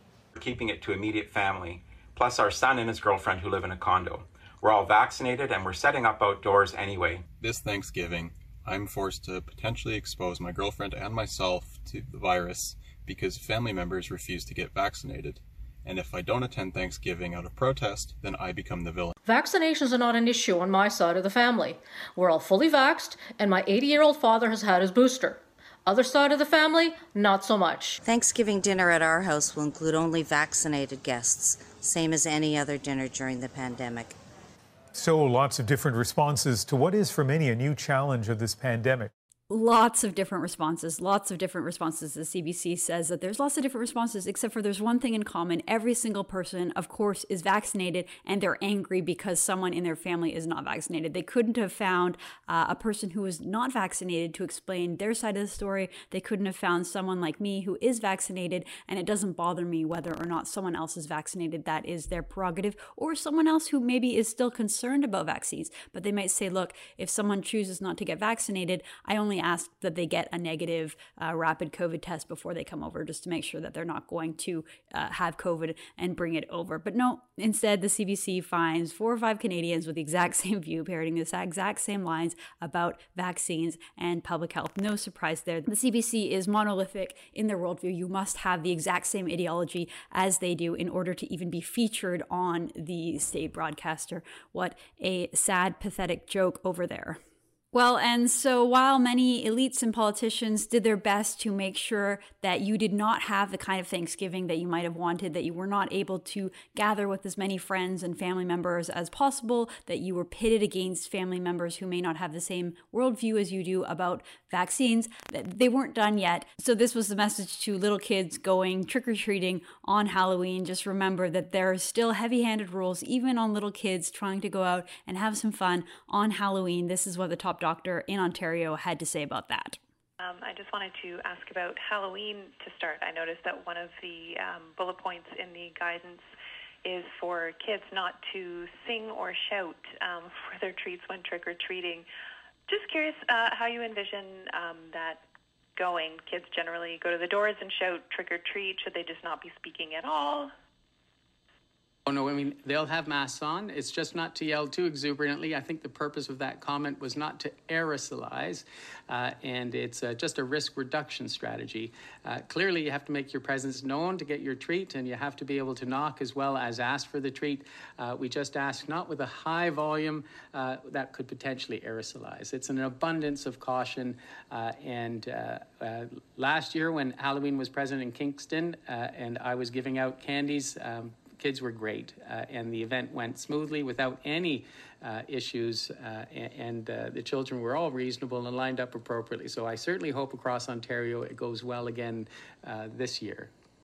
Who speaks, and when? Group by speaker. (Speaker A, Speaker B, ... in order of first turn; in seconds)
Speaker A: 0.3-7.3
Speaker B: 7.4-19.2
Speaker C: 19.3-28.0
Speaker D: 28.0-34.2
Speaker E: 35.0-39.1
Speaker F: 39.5-97.2, 97.7-129.8
Speaker G: 130.2-136.2, 136.8-142.1, 142.7-145.2, 145.8-150.5
Speaker H: 152.1-193.5